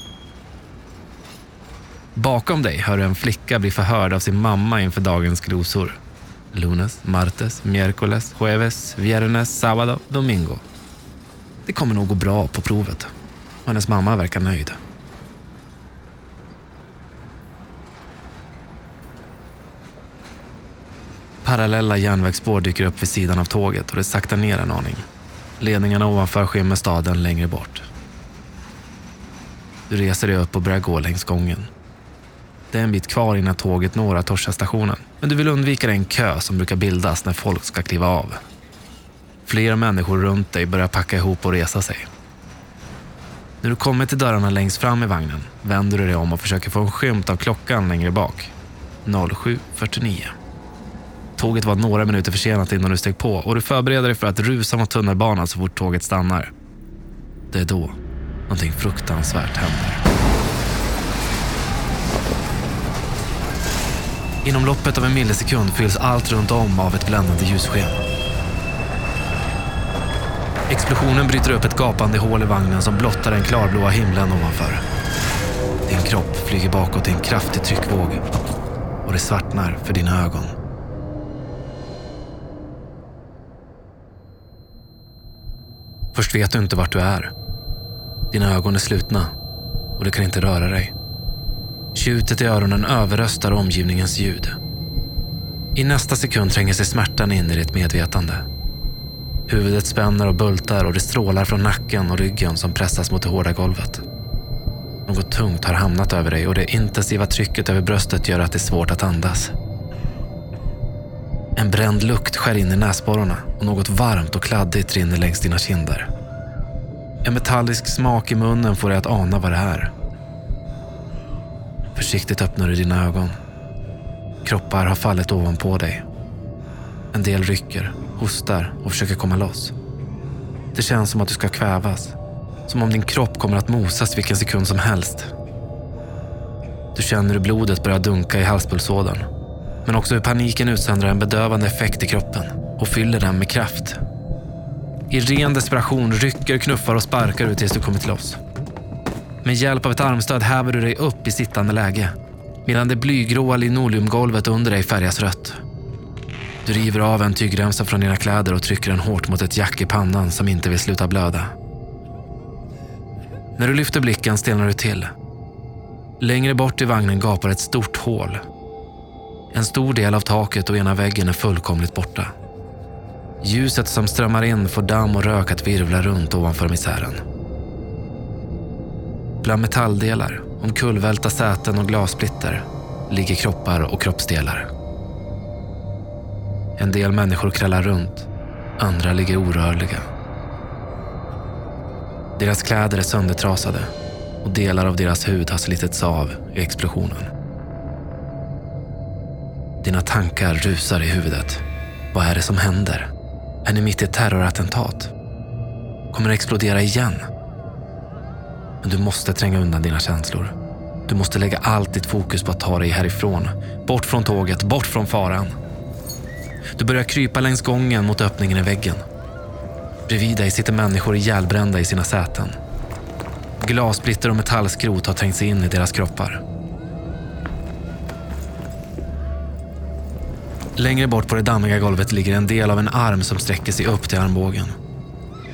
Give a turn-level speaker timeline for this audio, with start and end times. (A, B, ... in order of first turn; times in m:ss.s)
0:02.2-0:10.6 A
0:11.6-0:13.1 A
0:13.6-0:14.8 A
0:21.4-0:25.0 A
0:25.6-0:27.9 A
0:29.9-0:31.7 A
0:32.7-0:38.4 A
0:39.4-0:42.1 A
0:43.6-0:50.4 A
0:51.4-0:56.5 A
0:57.5-0:58.0 A
0:58.5-1:00.0 A
1:04.4-1:08.0 A
1:10.7-1:14.8 A
1:15.8-1:18.2 A
1:19.0-1:20.6 A
1:26.1-1:27.3 A
1:28.3-1:29.3 A
1:30.0-1:30.9 A
1:31.9-1:34.6 A
1:35.8-1:38.5 A
1:39.5-1:44.0 A
1:45.1-1:49.5 A
1:51.6-1:56.1 A
1:57.2-1:59.9 A
2:01.9-2:03.4 A
2:04.4-2:06.0 A
2:07.1-2:09.8 A
2:10.7-2:15.3 A
2:16.9-2:19.3 A
2:19.8-2:24.0 A
2:25.1-2:28.4 A
2:29.4-2:35.6 A
2:36.6-2:41.5 A
2:43.6-2:45.1 A
2:46.2-2:48.4 A
2:49.5-2:52.3 A
2:53.4-2:57.2 A
2:59.4-3:04.7 A
3:06.8-3:10.1 A
3:12.4-3:17.3 A
3:19.8-3:23.1 A
3:23.6-3:25.1 A
3:26.1-3:27.3 A
3:28.8-3:30.6 A
3:31.1-3:35.6 A
3:36.7-3:39.0 A
3:40.1-3:42.6 A
3:43.6-3:46.4 A
3:50.8-3:54.8 A